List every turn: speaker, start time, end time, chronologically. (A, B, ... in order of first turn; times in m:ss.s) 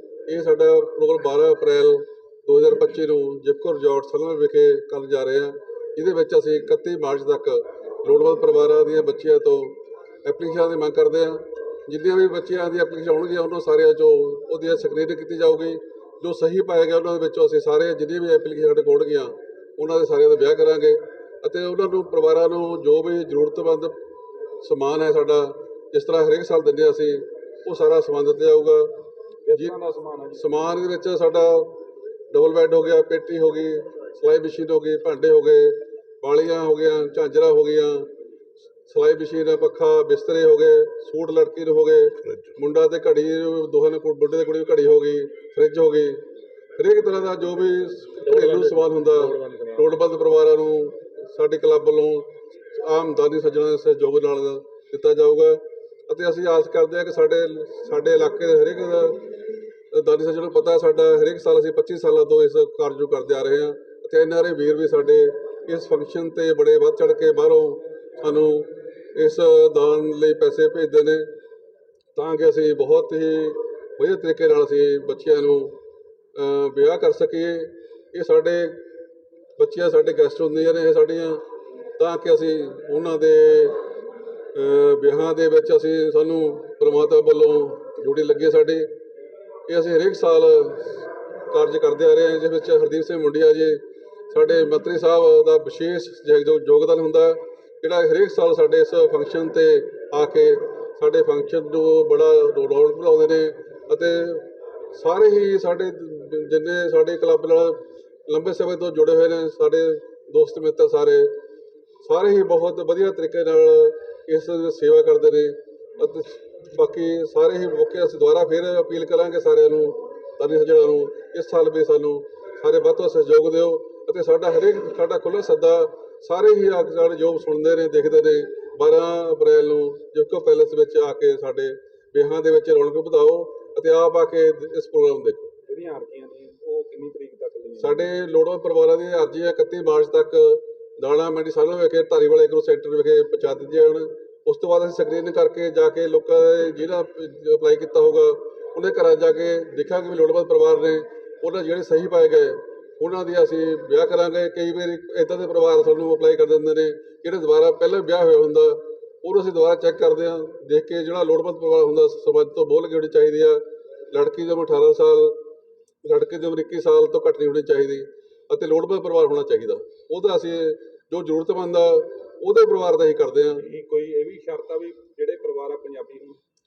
0:00.3-0:23.9 A
0:24.6-0:28.9 A
0:29.4-0:30.5 B
0:29.5-0:29.8 A
0:30.3-0:31.8 A
0:32.3-0:38.1 A
0:38.9-0:46.2 A
0:46.8-0:59.2 A
0:48.3-0:49.8 B
0:59.9-1:11.2 A
1:12.1-1:15.8 A
1:16.4-1:18.8 A
1:19.6-1:21.4 A
1:22.0-1:23.8 A
1:24.5-1:28.9 A
1:29.7-1:51.3 A
1:52.0-2:15.5 A
2:15.6-2:18.0 B
2:17.8-2:45.4 A
2:46.0-2:53.6 A
2:53.6-2:56.4 B